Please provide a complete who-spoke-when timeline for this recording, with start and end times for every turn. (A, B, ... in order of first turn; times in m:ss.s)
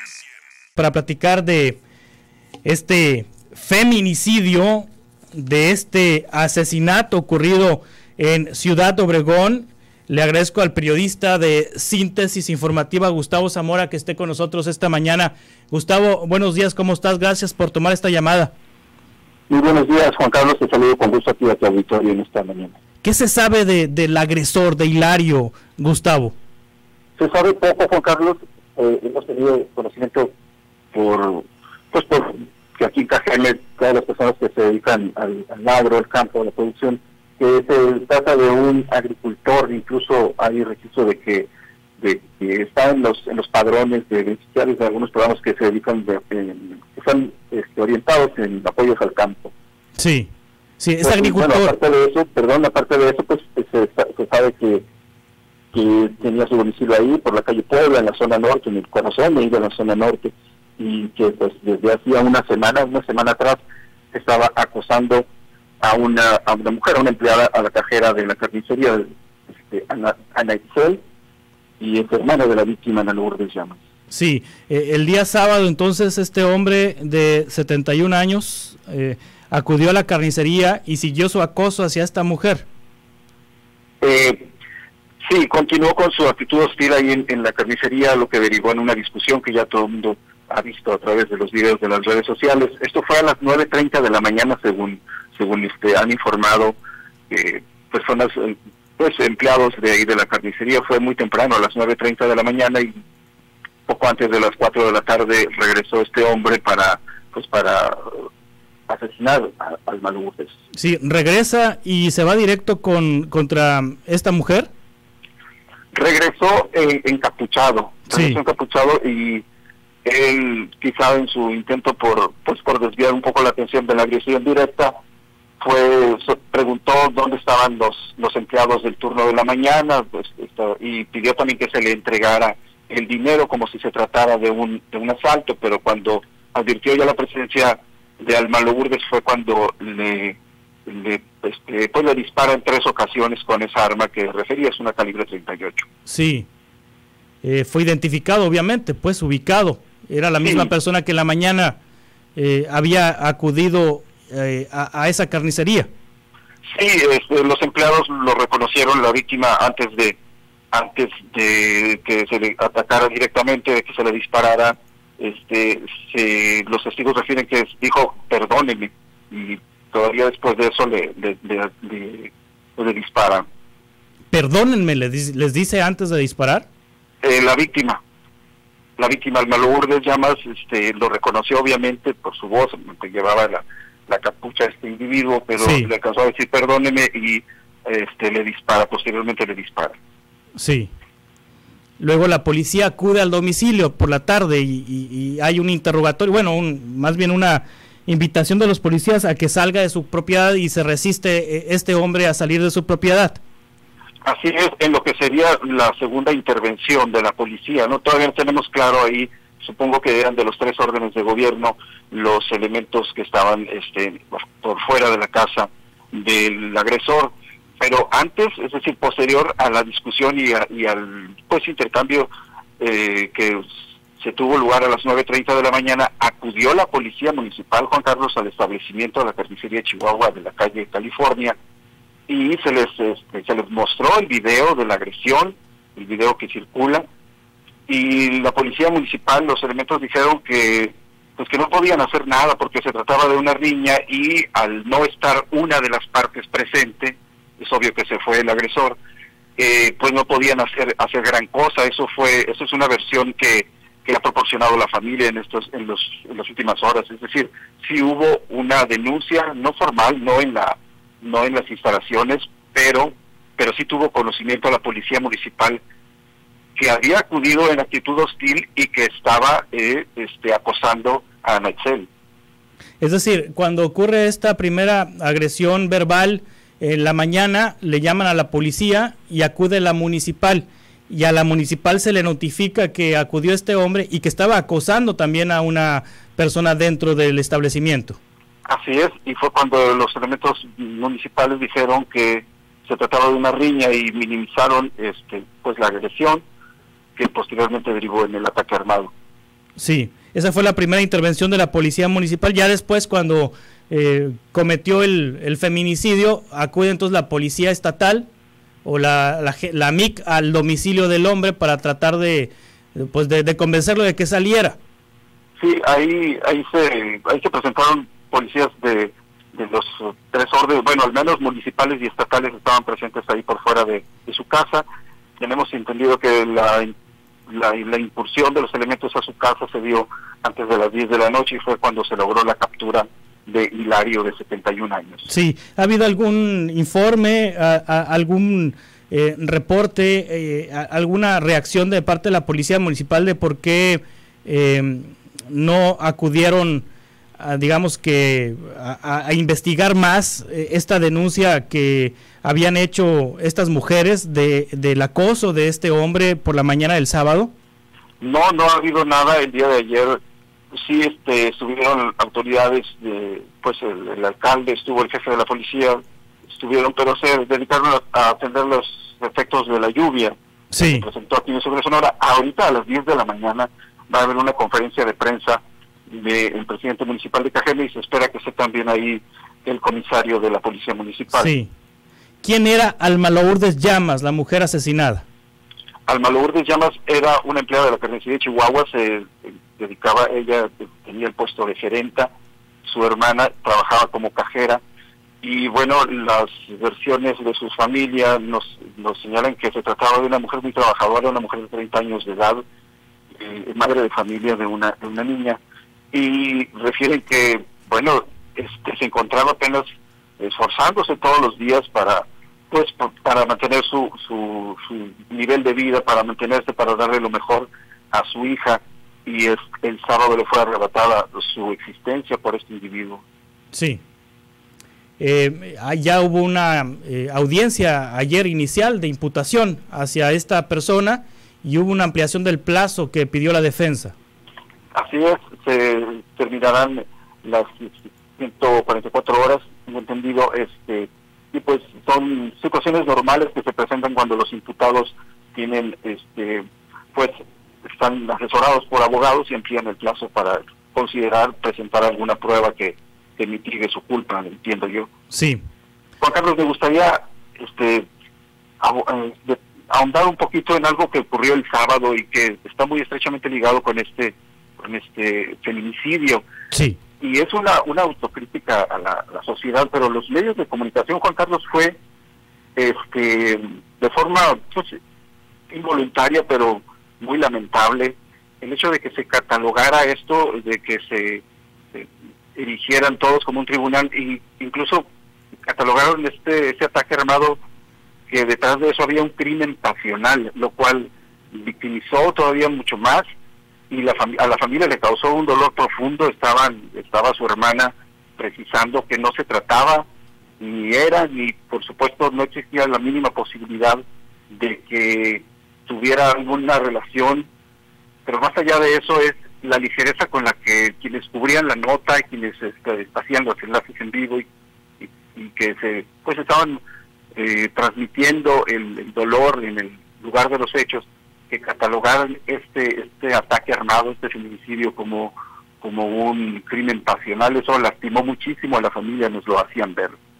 0:00.8-0:01.8 A
0:02.6-0:18.5 A
0:19.5-0:22.8 B
0:23.0-0:26.4 A
0:27.2-0:30.3 B
0:30.9-0:49.5 B
0:50.0-0:51.7 A
0:51.0-0:54.8 B
0:55.7-1:05.3 B
1:05.8-1:09.1 B
1:09.6-1:11.0 B
1:11.8-1:13.8 B
1:14.1-1:22.7 A
1:24.0-1:24.5 B
1:25.2-1:36.8 B
1:37.3-1:43.0 B
1:43.9-1:48.3 B
1:48.9-1:50.5 B
1:50.7-1:54.7 A
1:55.9-1:59.4 B
1:58.1-1:58.4 A
2:00.0-2:04.9 B
2:05.6-2:25.8 B
2:26.1-2:26.5 A
2:27.4-2:31.8 A
2:30.4-2:30.7 B
2:32.4-2:35.9 A
2:36.7-2:40.2 B
2:40.7-2:53.4 B
2:54.3-2:56.7 A
2:57.2-2:58.0 B
2:59.0-3:10.0 B
3:05.6-3:05.9 A
3:10.6-3:10.9 A
3:12.0-3:23.4 A
3:24.2-3:42.3 B
3:42.8-3:43.6 B
3:44.2-3:51.6 B
3:52.3-3:57.0 B
3:57.9-4:09.0 B
4:09.6-4:25.8 B
4:26.8-4:32.1 B
4:33.0-4:48.2 A
4:48.6-4:56.4 B
4:57.2-4:59.1 B
4:59.8-5:08.3 A
5:08.8-5:14.8 A
5:15.6-5:24.8 B
5:25.4-5:26.9 B
5:27.5-5:35.3 B
5:35.2-5:57.5 A
5:58.2-6:00.2 B
6:00.8-6:21.5 B
6:10.7-6:11.1 A
6:21.3-6:21.7 A
6:22.4-6:25.2 A
6:26.1-6:32.3 B
6:32.8-6:34.8 B
6:35.4-6:42.6 B
6:43.3-6:45.6 B
6:46.1-6:49.8 B
6:50.4-7:03.2 B
7:03.7-7:04.0 A
7:05.2-7:14.1 A
7:14.9-7:27.3 B
7:27.9-7:35.1 B
7:35.3-7:35.6 A
7:36.2-7:38.0 B
7:38.8-7:46.4 B
7:46.7-7:47.0 A
7:47.2-7:52.0 B
7:52.8-7:55.0 B
7:55.7-8:05.0 B
8:05.6-8:07.6 B
8:08.3-8:13.2 B
8:13.9-8:20.1 B
8:20.6-8:27.5 B
8:28.2-8:34.4 B
8:35.0-8:36.8 B
8:37.3-8:50.2 B